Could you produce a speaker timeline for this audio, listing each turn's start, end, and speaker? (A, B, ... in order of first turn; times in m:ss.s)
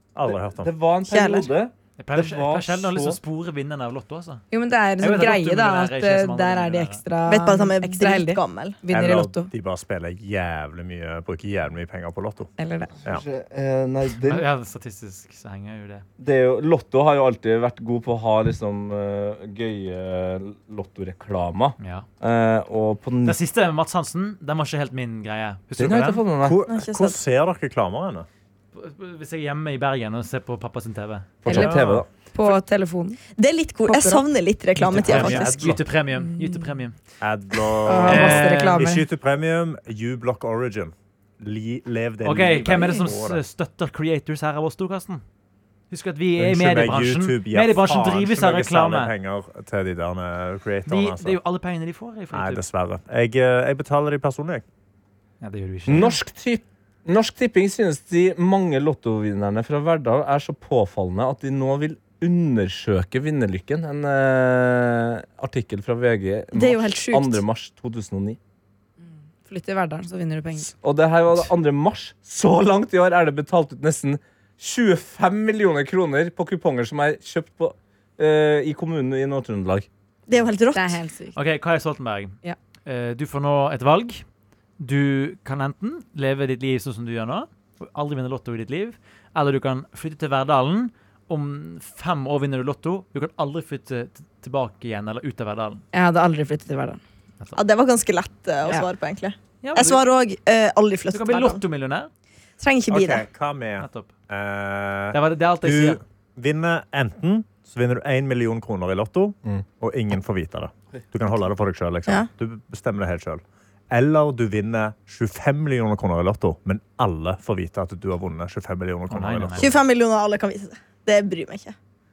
0:00.2-0:00.7 A
0:00.3-0:03.2 B
0:01.1-0:01.5 C
0:02.0-0:04.4 D
0:04.5-0:09.5 E
0:05.0-0:07.0 D
0:07.3-0:08.8 C
0:08.9-0:12.5 A
0:12.6-0:13.0 E
0:13.0-0:14.5 B
0:14.2-0:16.0 D
0:16.2-0:23.4 B
0:21.8-0:22.1 D
0:23.2-0:26.2 D
0:25.8-0:26.6 B
0:26.4-0:28.3 A
0:26.7-0:27.2 C
0:28.7-0:31.4 D
0:31.4-0:32.1 B
0:31.5-0:31.8 E
0:31.5-0:32.1 A
0:32.3-0:33.2 E
0:33.4-0:35.7 C
0:33.9-0:34.3 E
0:34.9-0:35.8 A
0:34.9-0:37.0 D
0:37.2-0:43.4 A
0:37.9-0:39.1 E
0:38.0-0:38.9 D
0:42.2-0:45.2 D
0:45.9-0:49.1 D
0:46.4-0:51.4 A
0:50.9-0:52.6 D
0:52.3-0:54.6 A
0:55.4-0:56.2 D
0:55.9-1:08.4 B
1:06.5-1:07.4 C
1:09.4-1:10.7 E
1:10.7-1:19.9 B
1:20.3-1:21.0 C
1:20.7-1:21.4 E
1:21.3-1:24.2 D
1:24.8-1:35.8 D
1:35.9-1:37.0 E
1:37.6-1:41.6 C
1:39.6-1:40.0 D
1:41.1-1:42.1 D
1:42.6-1:43.3 C
1:42.9-1:59.8 A
1:43.8-1:44.1 D
1:45.1-1:46.0 D
1:59.1-1:59.8 D
1:59.6-2:01.8 C